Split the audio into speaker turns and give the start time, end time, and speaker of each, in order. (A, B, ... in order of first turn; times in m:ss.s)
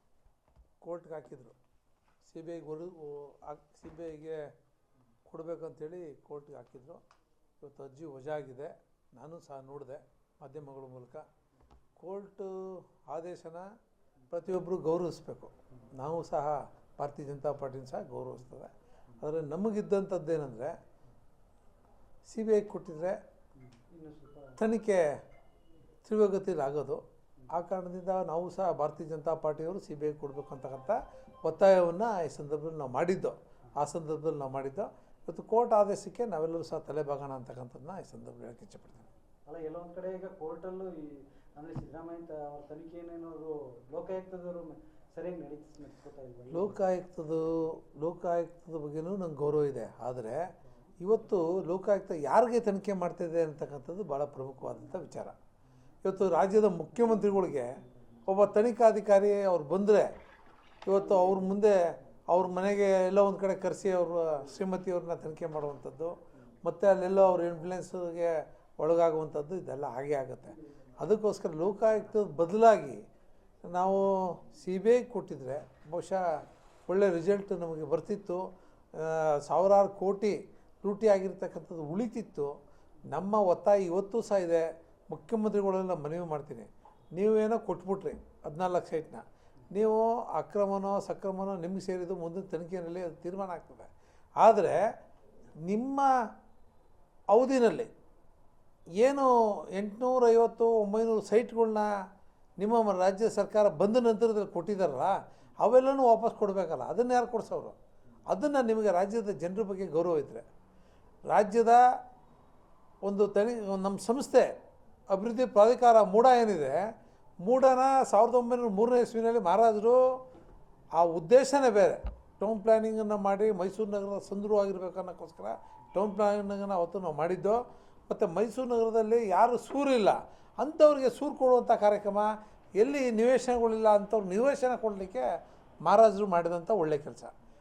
0:00.8-0:01.6 A
0:02.2-0:04.5 A
0:05.3-0:07.0 A
0:07.6-0:11.3 A
0:12.0-0:13.7 A
0:14.3-0:20.8 A
0:22.3-0:23.2 A
0:23.6-0:24.6 B
0:24.6-0:25.2 A
0:26.0-0:39.1 A
0:39.5-0:46.8 B
0:46.5-0:55.4 A
0:56.0-1:00.1 A
0:57.0-0:57.9 B
1:00.9-1:13.0 A
1:01.0-1:01.6 B
1:13.6-1:22.6 A
1:23.1-1:33.9 A
1:34.4-1:34.9 A
1:35.7-1:36.1 A
1:37.3-1:37.9 A
1:39.0-1:41.9 A
1:42.6-1:47.8 A
1:48.3-1:50.4 A
1:51.3-1:51.8 A
1:53.0-1:54.5 A
1:55.1-1:56.8 A
1:57.4-2:00.0 A
2:01.0-2:15.3 A
2:15.8-2:17.3 A